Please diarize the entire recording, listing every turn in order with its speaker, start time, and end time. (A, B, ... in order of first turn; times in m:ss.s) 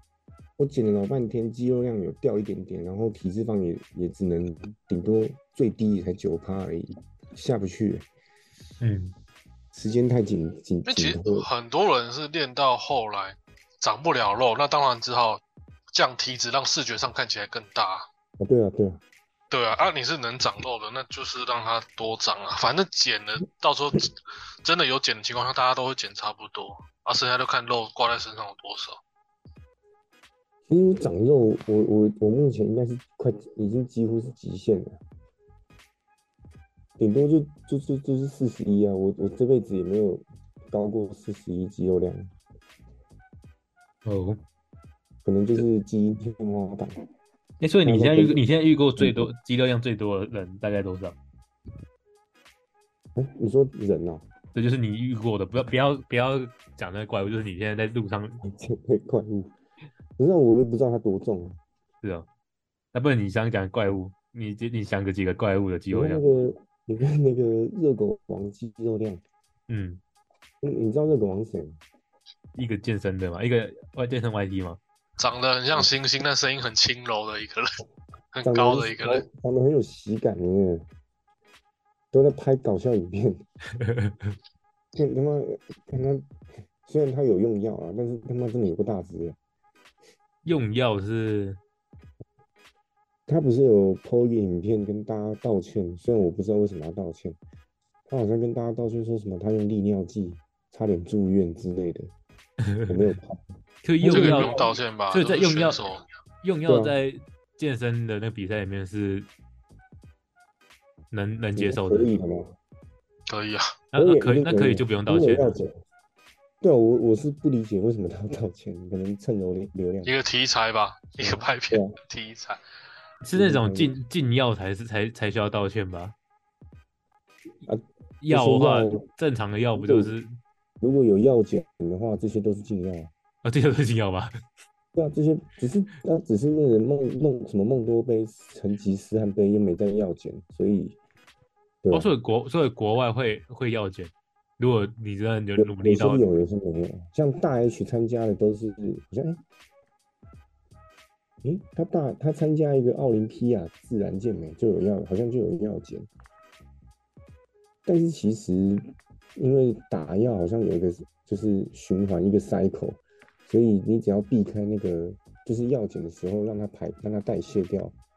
0:00.6-0:08.1 A
0:08.8-0:09.1 B
0:09.7-0:11.5 A
0:10.9-0:18.1 C
0:18.4-0:19.0 A
0:19.5-0:24.1 C
0:24.6-0:29.0 C
0:30.7-0:35.0 A
0:37.0-0:42.3 A
0:44.0-0:44.4 B
0:45.2-0:46.9 A
0:47.6-0:51.2 B
0:47.8-0:48.4 A
0:49.0-0:49.3 A
0:53.2-0:54.2 A
0:54.5-0:58.4 B
0:58.4-0:59.5 A
1:00.2-1:01.6 A
1:02.0-1:02.3 B
1:02.9-1:06.2 B
1:05.9-1:09.2 A
1:09.7-1:10.0 B
1:10.6-1:11.8 A
1:12.6-1:14.8 B
1:15.2-1:17.7 C
1:18.3-1:19.2 C
1:18.4-1:20.8 A
1:22.1-1:23.4 A
1:23.8-1:24.4 B
1:24.9-1:26.2 A
1:26.8-1:29.4 A
1:30.4-1:31.6 B
1:33.3-1:37.4 A
1:38.1-1:42.1 A
1:42.7-1:42.9 B
1:42.9-1:43.4 A
1:43.8-1:44.6 B
1:44.0-1:44.8 A
1:44.1-1:46.0 C
1:45.1-1:45.8 B
1:46.4-1:49.3 B
1:46.7-1:46.9 A
1:51.1-1:52.1 B
1:51.6-1:52.6 A
1:53.3-1:53.7 C
1:53.9-1:55.6 B
1:54.0-1:55.8 A
1:56.6-2:00.1 A
2:00.0-2:02.6 C
2:01.2-2:01.9 A
2:03.2-2:06.1 B
2:03.3-2:03.9 A
2:07.6-2:09.0 A
2:08.2-2:10.4 B
2:09.8-2:10.1 A
2:10.8-2:13.1 A
2:13.4-2:14.3 B
2:14.9-2:21.0 A
2:21.8-2:22.1 A
2:21.9-2:26.2 B
2:25.6-2:29.4 A
2:31.4-2:36.1 A
2:37.8-2:38.8 A
2:39.4-2:48.0 A